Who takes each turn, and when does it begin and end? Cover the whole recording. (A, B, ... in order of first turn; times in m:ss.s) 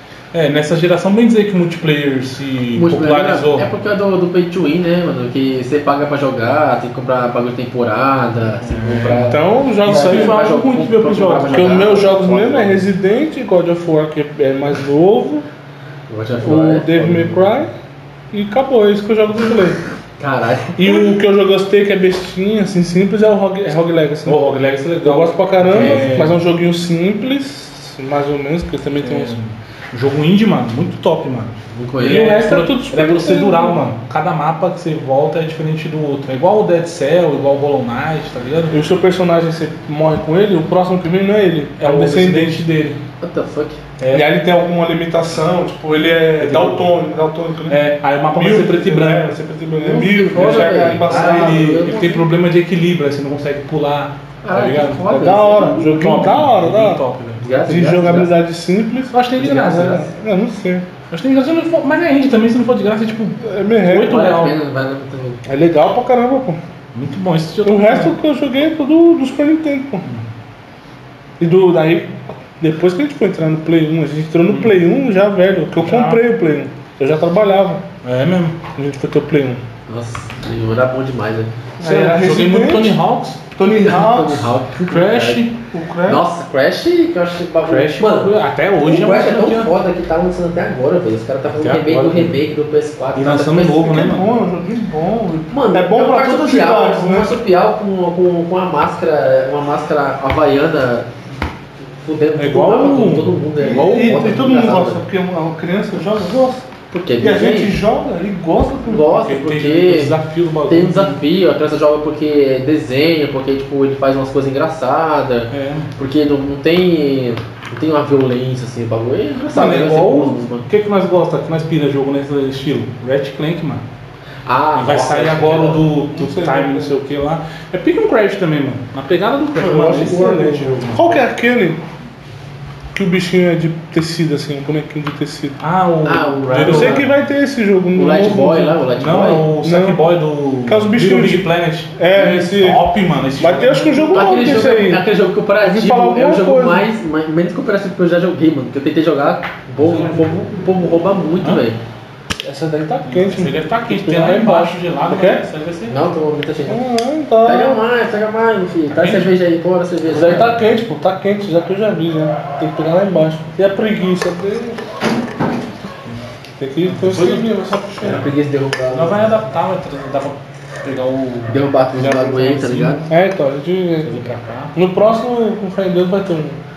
0:00.3-0:03.7 A
0:02.8-0:12.8 B
0:08.6-0:11.7 A
0:09.3-0:10.4 C
0:11.5-0:15.5 C
0:16.1-0:17.5 B
0:16.4-0:17.7 C
0:18.3-0:19.8 C
0:20.2-0:21.0 B
0:20.8-0:24.4 C
0:24.2-0:26.4 A
0:25.0-0:29.4 C
0:25.6-0:26.1 B
0:29.0-0:38.8 A
0:31.7-0:32.4 B
0:32.0-0:33.9 C
0:38.7-0:42.7 C
0:41.8-0:43.0 A
0:43.2-0:43.8 B
0:44.0-0:44.3 A
0:44.1-0:47.8 C
0:46.4-0:46.9 A
0:47.7-0:49.3 A
0:48.4-0:51.8 C
0:49.8-0:52.2 B
0:50.4-0:55.1 A
0:54.4-0:55.9 B
0:55.1-0:57.0 C
0:55.6-0:58.2 A
0:57.4-0:58.3 B
0:57.7-1:00.9 C
0:59.1-1:00.0 A
0:59.4-1:00.0 B
1:01.1-1:04.6 A
1:03.4-1:04.2 C
1:04.0-1:05.4 B
1:05.5-1:06.6 C
1:06.9-1:08.1 A
1:07.6-1:10.1 C
1:11.4-1:17.8 C
1:15.8-1:16.2 A
1:18.0-1:18.6 A
1:18.8-1:19.6 C
1:19.9-1:21.5 B
1:21.8-1:23.0 C
1:21.8-1:23.4 A
1:23.5-1:24.5 C
1:23.8-1:25.4 B
1:24.9-1:25.6 A
1:25.7-1:26.2 C
1:26.1-1:34.0 B
1:27.7-1:29.7 A
1:31.5-1:32.4 A
1:33.1-1:34.3 A
1:33.8-1:37.4 C
1:35.5-1:41.1 B
1:42.0-1:45.0 B
1:42.4-1:43.4 A
1:43.6-1:46.7 C
1:46.9-1:47.8 B
1:47.2-1:49.1 C
1:48.9-1:50.2 B
1:49.2-1:51.2 A
1:50.7-2:00.7 B
1:55.5-1:55.9 A
1:59.5-2:03.8 A
2:04.4-2:05.9 B
2:04.8-2:11.2 A
2:06.1-2:07.0 C
2:09.6-2:10.4 B
2:09.6-2:11.8 C
2:12.9-2:15.6 C
2:15.6-2:17.0 A
2:16.0-2:17.1 B
2:16.6-2:18.8 C
2:18.0-2:19.5 B
2:19.0-2:24.2 A
2:19.6-2:20.0 C
2:20.7-2:22.9 C
2:23.4-2:25.0 C
2:24.1-2:31.8 B
2:25.6-2:26.8 C
2:29.9-2:30.2 A
2:32.4-2:35.4 C
2:33.1-2:36.0 A
2:35.9-2:36.8 B
2:36.7-2:37.8 C
2:37.4-2:40.5 B
2:38.9-2:39.3 A
2:40.1-2:44.8 C
2:46.6-2:48.2 C
2:46.8-2:47.5 A
2:48.0-2:49.3 B
2:48.9-2:53.1 A
2:51.5-2:53.0 B
2:53.1-2:54.1 C
2:54.0-2:54.8 A
2:54.8-2:56.6 C